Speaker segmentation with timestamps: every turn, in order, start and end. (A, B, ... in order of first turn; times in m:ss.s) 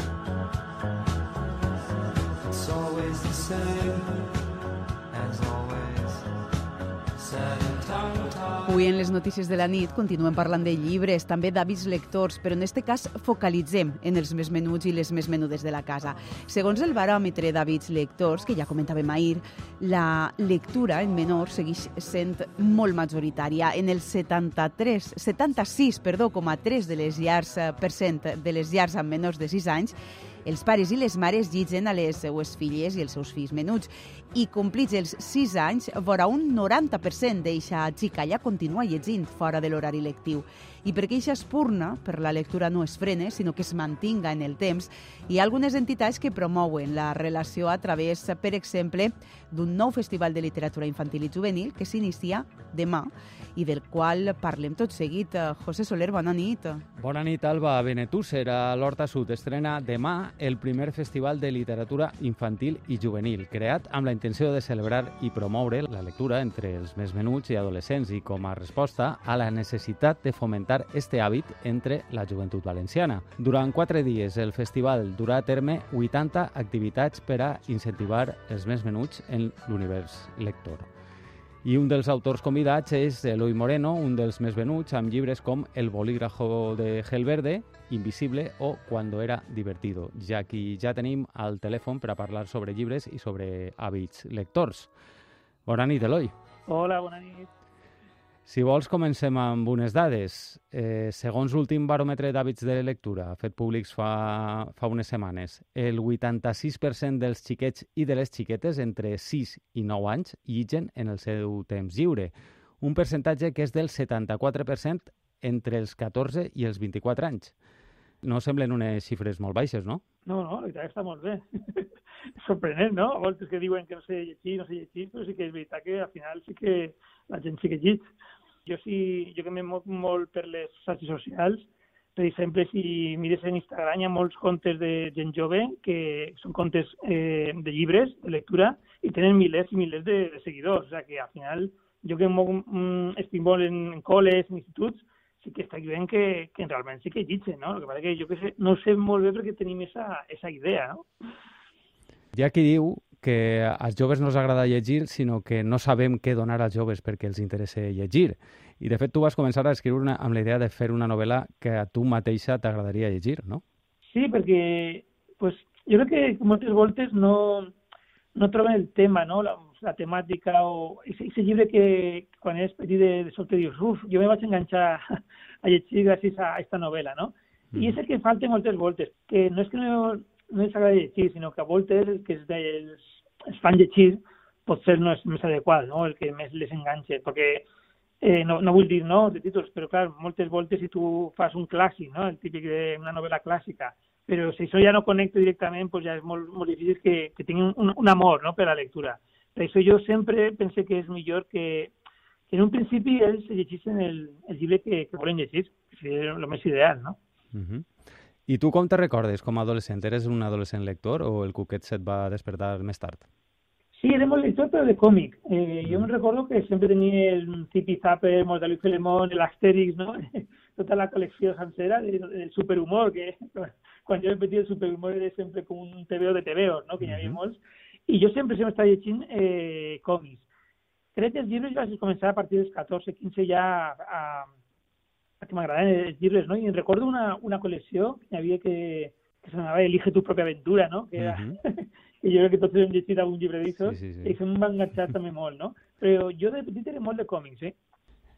0:02.6-0:04.0 A
0:05.1-0:06.2 A
0:07.2-0:08.5 A
0:08.6-0:56.8 B
0:57.0-1:20.9 C
1:21.6-1:34.9 C
1:35.7-1:36.3 C
1:36.7-1:37.5 D
1:38.5-1:57.5 C
1:58.2-2:00.0 C
2:00.3-2:01.9 D
2:02.4-2:08.1 D
2:08.7-2:31.1 D
2:32.4-2:43.6 C
2:44.1-2:47.7 D
2:48.4-3:07.7 D
3:08.2-3:21.9 D
3:22.5-3:27.2 D
3:27.5-3:27.9 C
3:28.5-3:33.2 C
3:34.0-3:50.5 D
3:47.0-3:47.4 C
3:51.2-3:54.5 D
3:55.4-4:07.8 D
4:01.2-4:01.6 C
4:03.8-4:04.4 C